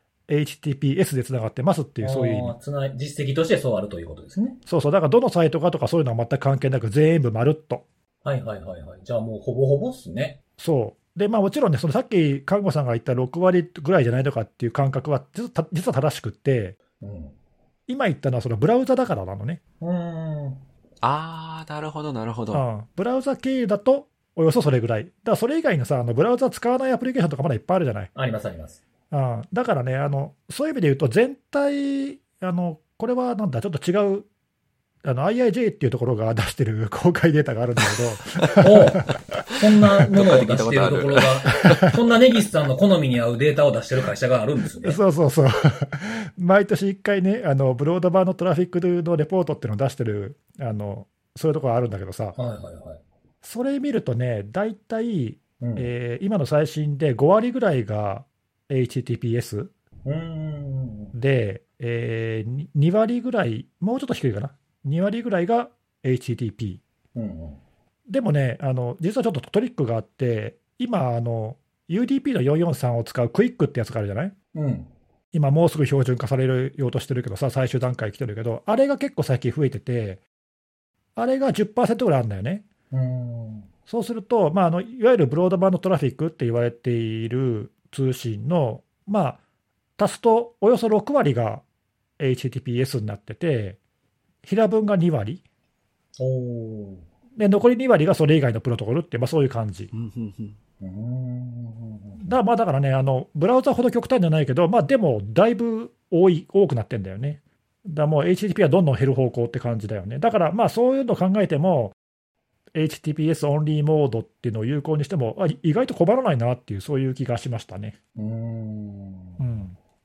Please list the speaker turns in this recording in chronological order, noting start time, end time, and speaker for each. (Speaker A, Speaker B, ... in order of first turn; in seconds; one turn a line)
Speaker A: 0.3-2.5
Speaker B: 2.0-4.6
Speaker A: 4.7-7.8
Speaker B: 8.2-10.4
Speaker A: 10.6-16.8
Speaker B: 17.0-17.3
Speaker A: 17.9-19.6
Speaker B: 19.8-20.6
Speaker C: 21.0-22.6
Speaker A: 22.5-28.1
Speaker B: 28.1-28.8
Speaker A: 29.1-34.3
Speaker A: 35.0-39.2
Speaker B: 38.6-45.0
Speaker C: 40.0-41.9
Speaker A: 44.8-52.4
Speaker B: 52.3-53.0
Speaker A: 53.4-59.7
Speaker B: 55.6-55.9
Speaker B: 60.0-61.1
Speaker A: 61.1-66.8
Speaker B: 67.1-67.6
Speaker A: 68.1-74.3
Speaker B: 74.5-74.9
Speaker A: 75.3-80.2
Speaker A: 81.2-82.6
Speaker B: 82.9-83.7
Speaker A: 83.9-89.4
Speaker A: 90.0-91.6
Speaker A: 92.2-93.8
Speaker A: 94.4-95.4
Speaker B: 96.2-97.0
Speaker A: 97.3-99.9
Speaker C: 99.9-100.6
Speaker B: 100.8-102.3
Speaker A: 102.2-111.9
Speaker A: 112.7-118.0
Speaker B: 118.2-119.6
Speaker A: 119.4-119.8